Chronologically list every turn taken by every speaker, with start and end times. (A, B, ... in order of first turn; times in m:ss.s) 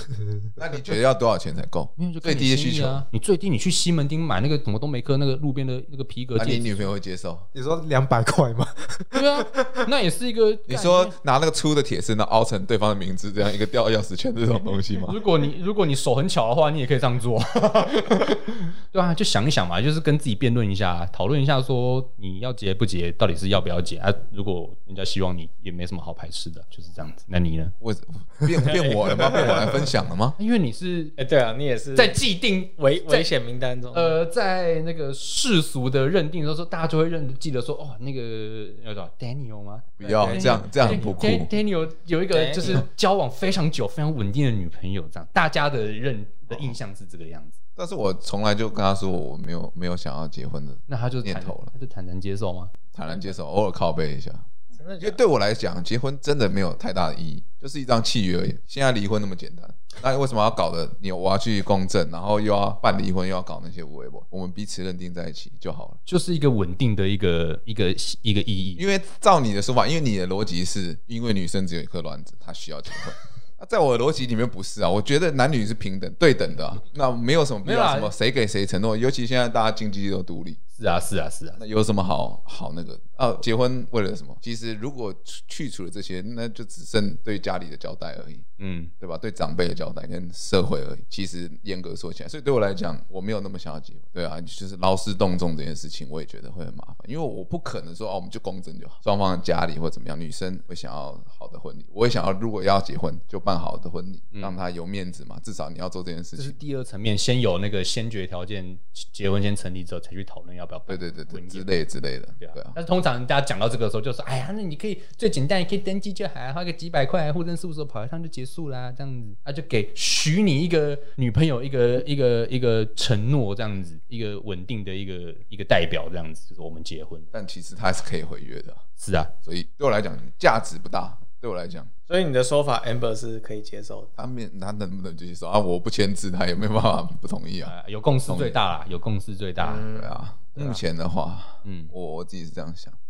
0:00.1-0:00.5 A
0:00.6-0:03.0 B
0:02.0-0:06.9 C
0:06.4-0:07.5 B
0:07.5-0:09.9 A
0:09.1-0:11.1 C
0:10.7-0:15.2 B
0:15.0-0:27.7 C
0:27.8-0:30.4 B
0:28.6-0:29.8 D
0:30.4-0:31.2 C
0:31.2-0:32.2 D
0:31.9-0:33.3 C
0:32.8-0:34.2 D
0:33.9-0:47.6 C
0:40.0-0:41.5 B
0:40.1-0:40.4 A
0:42.3-0:42.8 D
0:47.8-0:51.7 B
0:50.9-0:53.2 C
0:52.9-0:54.4 B
0:54.8-0:55.2 D
0:55.0-1:06.0 B
1:06.0-1:08.8 C
1:08.8-1:20.6 B
1:17.6-1:18.1 C
1:20.8-1:21.6 C
1:21.6-1:28.4 B
1:28.6-1:28.9 C
1:29.0-1:46.6 B
1:46.4-1:51.7 C
1:50.9-1:52.8 B
1:52.4-2:07.3 C
2:07.3-2:08.8 B
2:09.0-2:09.3 C
2:09.4-2:11.9 B
2:12.1-2:14.1 D
2:14.2-2:17.7 B
2:17.6-2:19.8 C
2:18.2-2:18.6 B
2:19.6-2:20.2 D
2:19.9-2:23.0 B
2:20.6-2:20.8 A
2:21.6-2:21.9 C